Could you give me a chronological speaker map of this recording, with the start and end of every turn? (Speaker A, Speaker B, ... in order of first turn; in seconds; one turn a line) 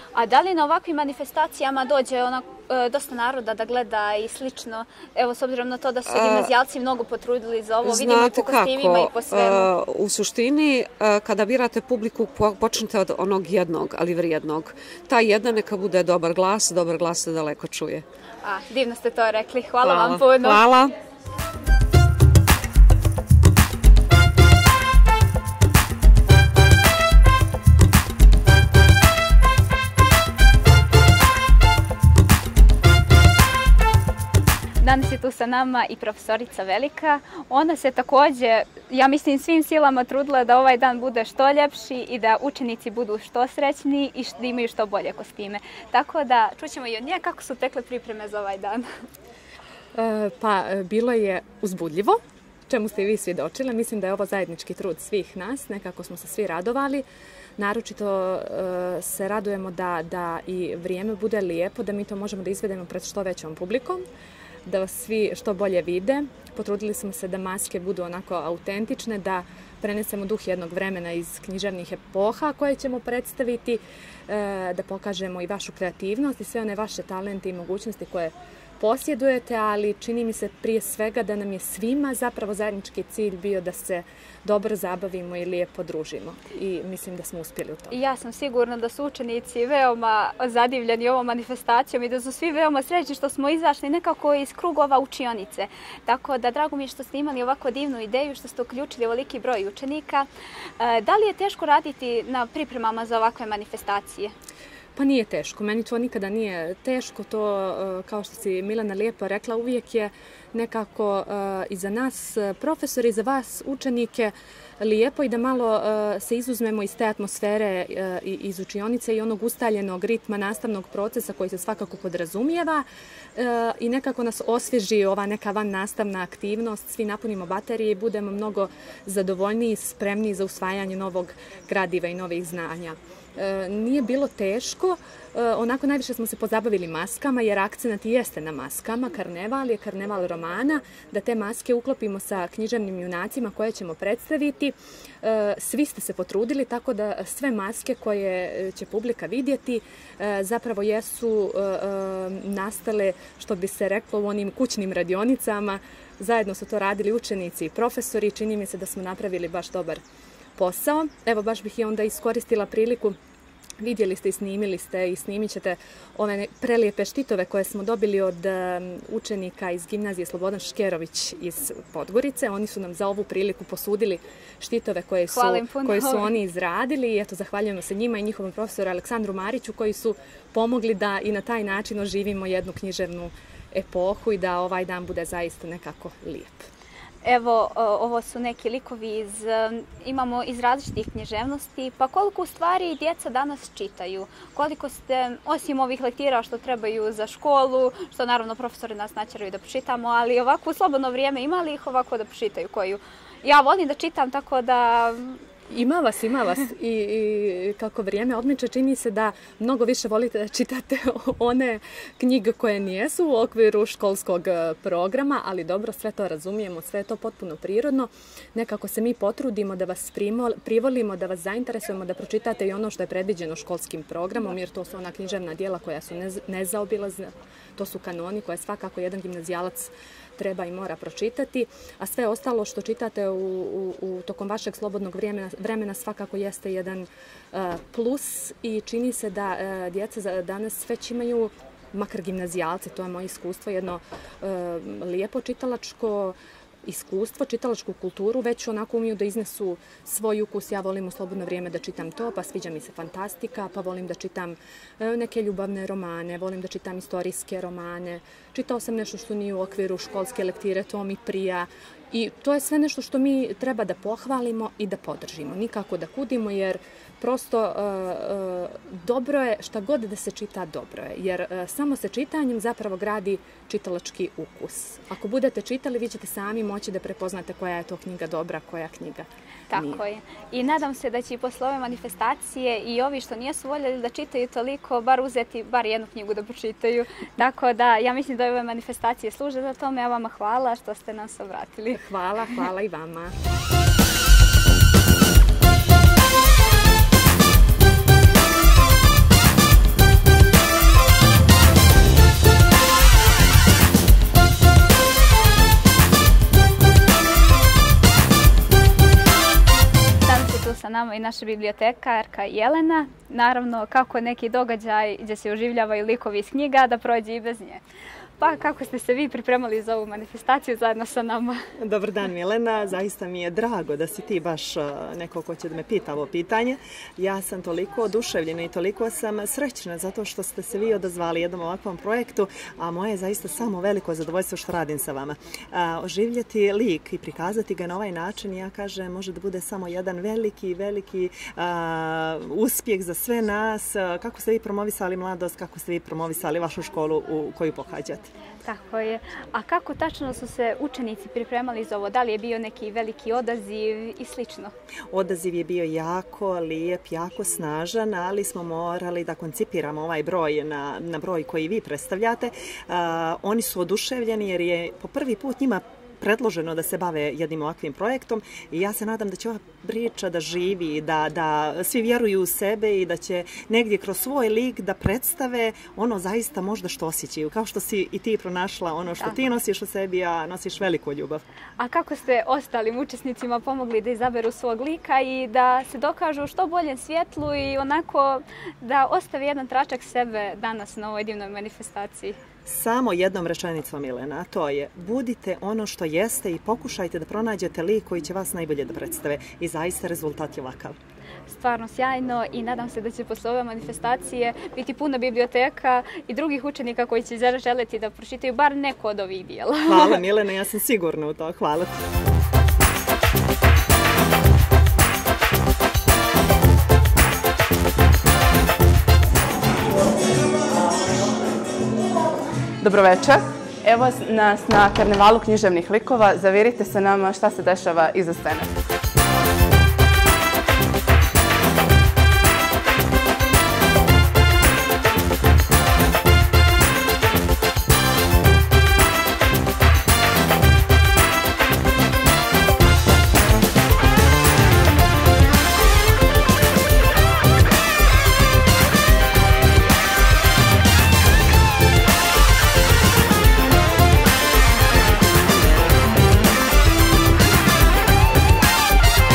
Speaker A: 0.1-9.7
Speaker B: 6.1-6.5
Speaker B: 7.8-18.1
Speaker A: 18.4-20.6
Speaker B: 19.8-20.9
Speaker A: 34.8-48.9
Speaker C: 50.0-57.1
Speaker C: 57.6-64.0
Speaker C: 64.7-88.0
Speaker A: 87.9-100.3
Speaker A: 100.8-104.3
Speaker C: 105.0-160.0
Speaker C: 160.6-163.2
Speaker C: 163.8-186.7
Speaker A: 175.3-176.4
Speaker A: 187.2-205.4
Speaker C: 205.7-280.0
Speaker A: 279.7-292.0
Speaker C: 291.9-293.4
Speaker A: 310.2-317.8
Speaker A: 318.4-321.6
Speaker D: 321.8-348.3
Speaker A: 348.6-354.7
Speaker D: 355.1-381.4
Speaker A: 381.8-392.4
Speaker D: 392.7-400.9
Speaker A: 401.5-410.3
Speaker D: 409.9-411.9
Speaker E: 422.8-428.7